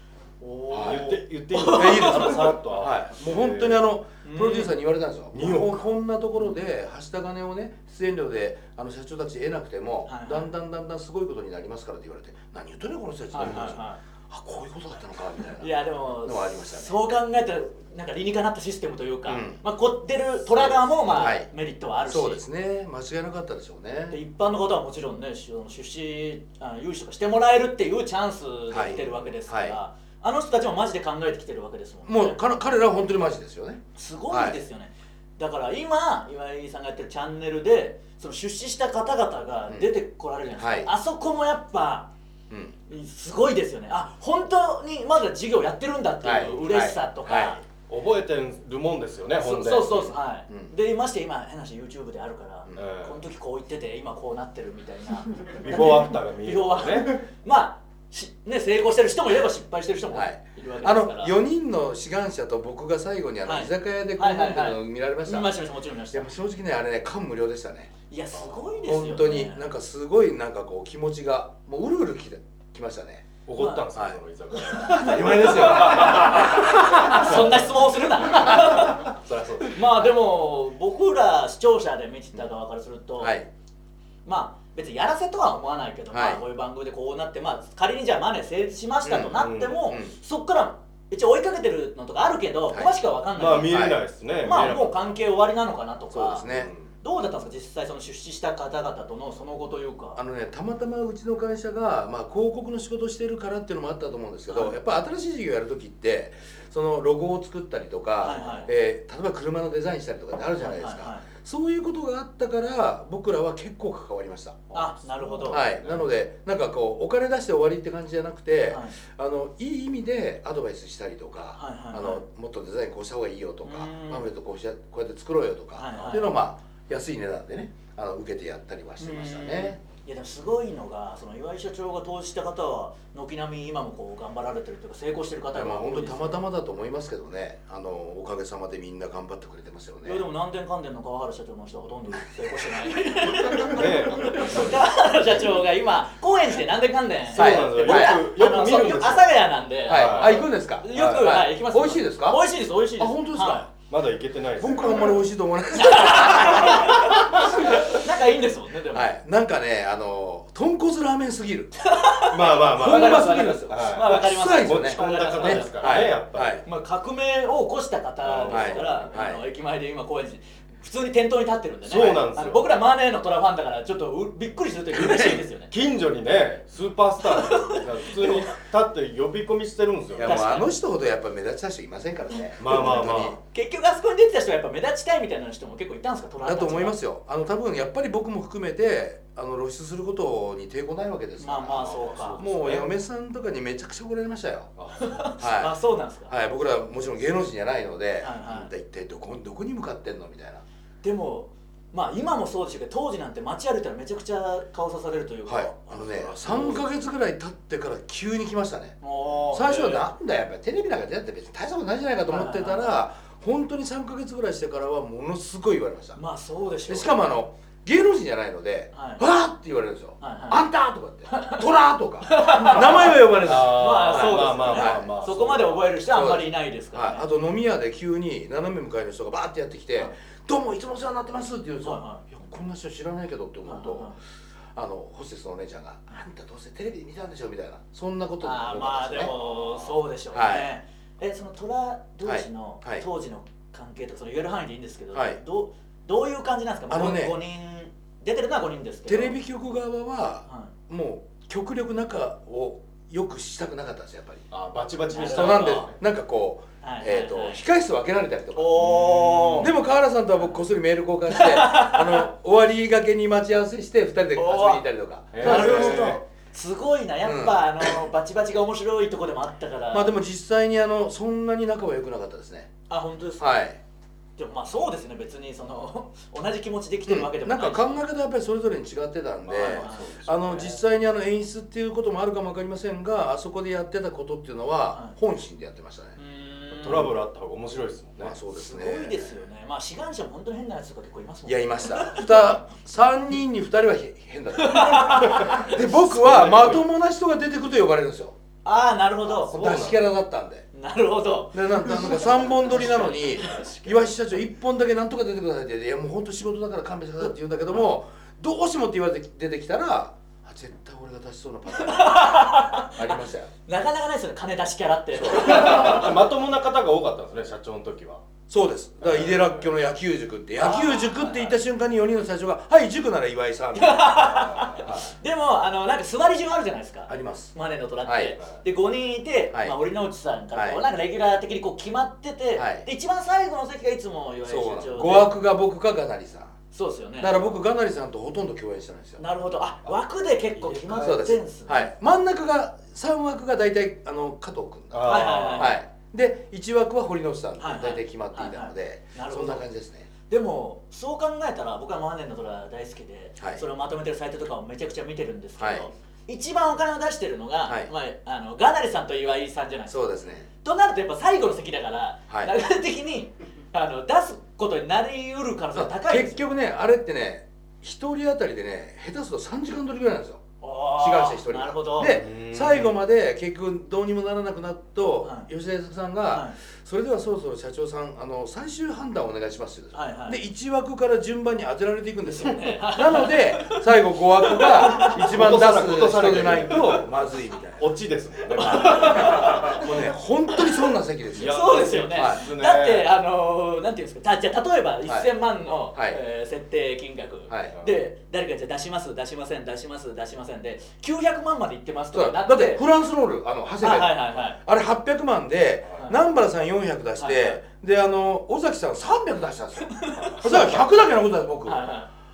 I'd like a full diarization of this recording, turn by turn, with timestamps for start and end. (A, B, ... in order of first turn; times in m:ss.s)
0:00.4-0:02.5 A
0:00.7-0:01.2 B
0:00.8-0:03.8 C
0:01.7-0:17.0 B
0:04.2-0:04.8 A
0:05.3-0:05.8 C
0:10.1-0:10.5 A
0:13.3-0:14.0 A
0:13.4-0:13.7 C
0:15.6-0:22.4 A
0:19.3-0:19.6 B
0:20.5-0:21.5 B
0:22.0-0:24.2 B
0:24.1-0:32.4 A
0:28.7-0:29.8 B
0:32.1-0:34.6 B
0:34.0-0:42.1 A
0:40.6-0:40.9 B
0:42.5-0:42.8 B
0:42.9-0:47.6 A
0:46.2-0:47.6 B
0:47.9-0:50.1 C
0:49.4-1:01.4 A
0:52.8-0:53.2 C
0:55.5-0:57.2 C
1:00.1-1:05.5 B
1:03.4-1:06.3 A
1:06.1-1:07.9 B
1:08.1-1:09.7 A
1:08.3-1:08.8 C
1:08.9-1:13.2 B
1:13.5-1:19.8 C
1:13.6-1:13.8 A
1:14.7-1:19.1 A
1:14.9-1:17.3 B
1:19.6-1:23.4 A
1:23.2-1:23.5 B
1:24.3-1:33.8 A
1:26.1-1:26.4 B
1:29.0-1:30.1 B
1:29.4-1:29.8 C
1:33.4-1:35.2 C
1:33.7-1:34.0 B
1:34.4-1:36.5 A
1:36.1-1:36.7 B
1:36.5-1:36.9 C
1:37.0-1:40.2 A
1:40.2-1:54.6 B
1:48.2-1:48.7 A
1:50.6-1:51.2 A
1:54.7-1:56.1 C
1:54.7-1:55.6 A
1:55.5-2:09.8 B
1:58.7-1:59.0 A
2:01.6-2:02.2 A
2:03.6-2:04.3 A
2:05.8-2:06.4 A
2:09.0-2:16.4 A
2:15.5-2:20.3 B
2:20.0-2:33.7 A
2:23.6-2:24.8 C
2:27.3-2:31.3 C
2:27.4-2:28.2 B
2:29.9-2:32.4 B
2:33.0-2:33.7 B
2:33.9-2:35.1 C
2:34.6-2:38.0 B
2:35.7-2:39.1 A
2:38.9-2:41.9 B
2:41.9-2:46.1 A
2:42.3-2:46.6 C
2:42.6-2:46.6 B
2:46.6-2:55.7 A
2:48.2-2:49.0 C
2:48.5-2:49.4 B
2:51.9-2:52.6 C
2:54.9-2:55.4 B
2:55.7-3:00.6 C
2:57.2-2:58.6 A
3:00.2-3:03.4 B
3:00.3-3:00.7 A
3:02.6-3:03.4 C
3:03.4-3:07.0 A
3:06.4-3:14.7 B
3:11.4-3:12.4 A
3:11.8-3:12.9 C
3:14.8-3:15.2 C
3:15.0-3:16.3 A
3:15.4-3:15.8 B
3:16.3-3:20.6 B
3:18.2-3:18.7 A
3:21.0-3:26.2 A
3:25.5-3:29.0 B
3:26.2-3:26.8 C
3:29.0-3:30.1 A
3:29.5-3:36.2 B
3:32.3-3:32.9 A
3:36.2-3:37.1 A
3:36.9-3:45.1 B
3:38.9-3:39.2 A
3:40.2-3:40.6 A
3:41.3-3:41.6 A
3:42.3-3:47.3 A
3:43.4-3:45.8 C
3:46.1-3:54.1 B
3:51.8-3:52.2 A
3:53.6-3:54.2 A
3:54.8-3:59.3 B
3:58.4-4:09.4 A
3:59.2-3:59.9 C
4:00.3-4:00.7 B
4:02.2-4:03.1 B
4:05.1-4:05.4 B
4:06.9-4:07.4 B
4:09.1-4:14.4 B
4:10.5-4:10.7 A
4:14.5-4:16.0 C
4:15.1-4:15.9 A
4:15.3-4:18.9 B
4:16.8-4:17.6 A
4:18.6-4:19.7 A
4:18.8-4:19.7 C
4:19.6-4:26.2 B
4:21.3-4:22.3 A
4:24.4-4:24.8 A
4:25.3-4:26.2 C
4:25.4-4:30.1 A
4:27.2-4:28.0 B
4:29.9-4:32.7 B
4:32.9-4:33.6 A
4:33.4-4:33.8 B
4:34.4-4:38.0 A
4:37.1-4:46.2 B
4:39.5-4:40.8 C
4:39.6-4:40.2 A
4:46.2-4:47.1 A
4:46.7-4:48.4 C
4:48.2-4:49.4 B
4:48.5-4:52.6 A
4:51.5-4:58.4 B
4:54.6-4:55.8 A
4:55.2-4:56.8 C
4:58.6-4:59.6 A
4:59.4-5:00.0 C
4:59.5-5:00.7 B
5:00.7-5:03.6 A
5:01.5-5:13.5 B
5:02.8-5:04.1 C
5:11.8-5:16.1 A
5:15.2-5:16.0 B
5:15.4-5:18.2 C
5:18.5-5:24.2 B
5:19.0-5:19.7 C
5:20.6-5:21.5 A
5:23.8-5:35.3 A
5:24.3-5:24.9 C
5:24.8-5:25.1 B
5:27.1-5:27.5 B
5:28.0-5:28.4 B
5:30.6-5:30.8 B
5:32.6-5:32.9 B
5:34.4-5:36.5 B
5:36.7-5:37.6 A
5:37.2-5:39.2 B
5:39.2-5:41.9 A
5:40.6-5:41.1 C
5:40.9-5:50.1 B
5:44.9-5:45.8 C
5:45.1-5:45.8 A
5:47.6-5:49.6 A
5:50.3-6:06.4 A
5:55.6-5:55.9 B
5:59.9-6:00.5 B
6:05.8-6:10.4 B
6:10.6-6:12.2 A
6:11.0-6:27.9 B
6:12.0-6:13.0 C
6:15.2-6:15.5 A
6:16.3-6:16.6 A
6:19.9-6:20.4 A
6:22.2-6:23.8 A
6:24.4-6:25.2 A
6:25.0-6:29.9 C
6:28.6-6:29.9 A
6:28.7-6:32.4 B
6:31.4-6:33.1 C
6:31.5-6:42.8 A
6:35.9-6:36.2 B
6:37.5-6:37.8 B
6:42.1-6:51.9 B
6:43.8-6:44.6 A
6:47.2-6:47.6 A
6:49.9-6:50.8 A
6:50.2-6:50.8 C
6:51.6-6:52.1 A